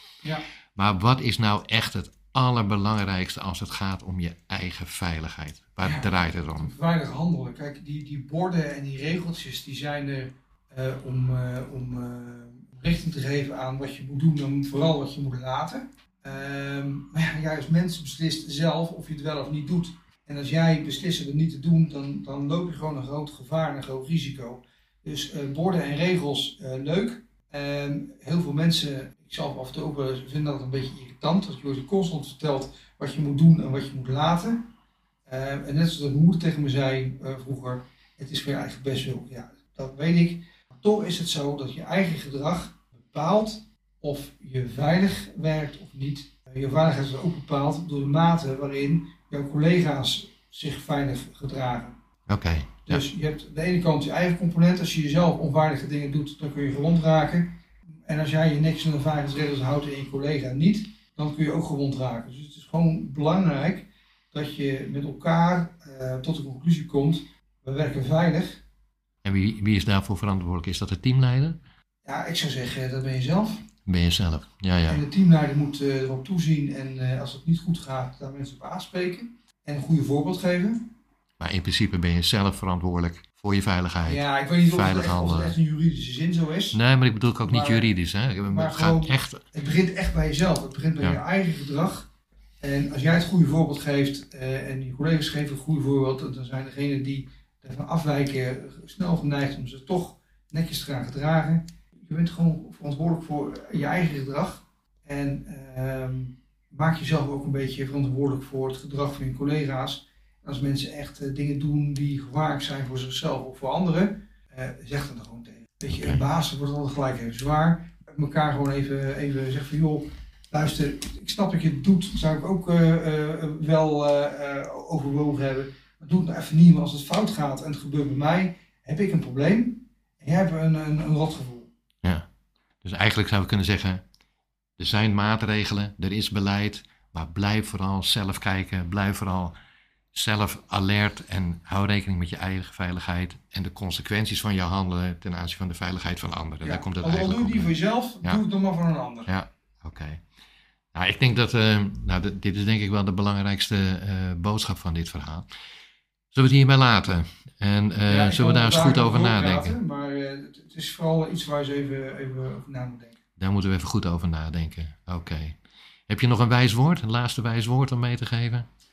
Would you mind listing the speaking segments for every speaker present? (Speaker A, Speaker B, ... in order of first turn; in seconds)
Speaker A: 0.8-6.7, 52.3-53.0, 69.2-71.6, 73.8-75.0, 81.4-85.5, 86.7-89.4, 115.9-116.2, 132.8-134.0, 134.8-139.5, 140.1-148.4, 149.3-150.2, 150.9-155.5, 156.3-159.8, 163.4-165.6, 166.1-168.7
Speaker B: 5.8-34.6, 35.3-52.0, 52.9-57.5, 58.0-68.6, 72.0-73.7, 74.9-80.9, 84.0-86.8, 87.5-87.9, 88.5-92.1, 92.6-131.7, 146.6-149.3, 158.1-163.2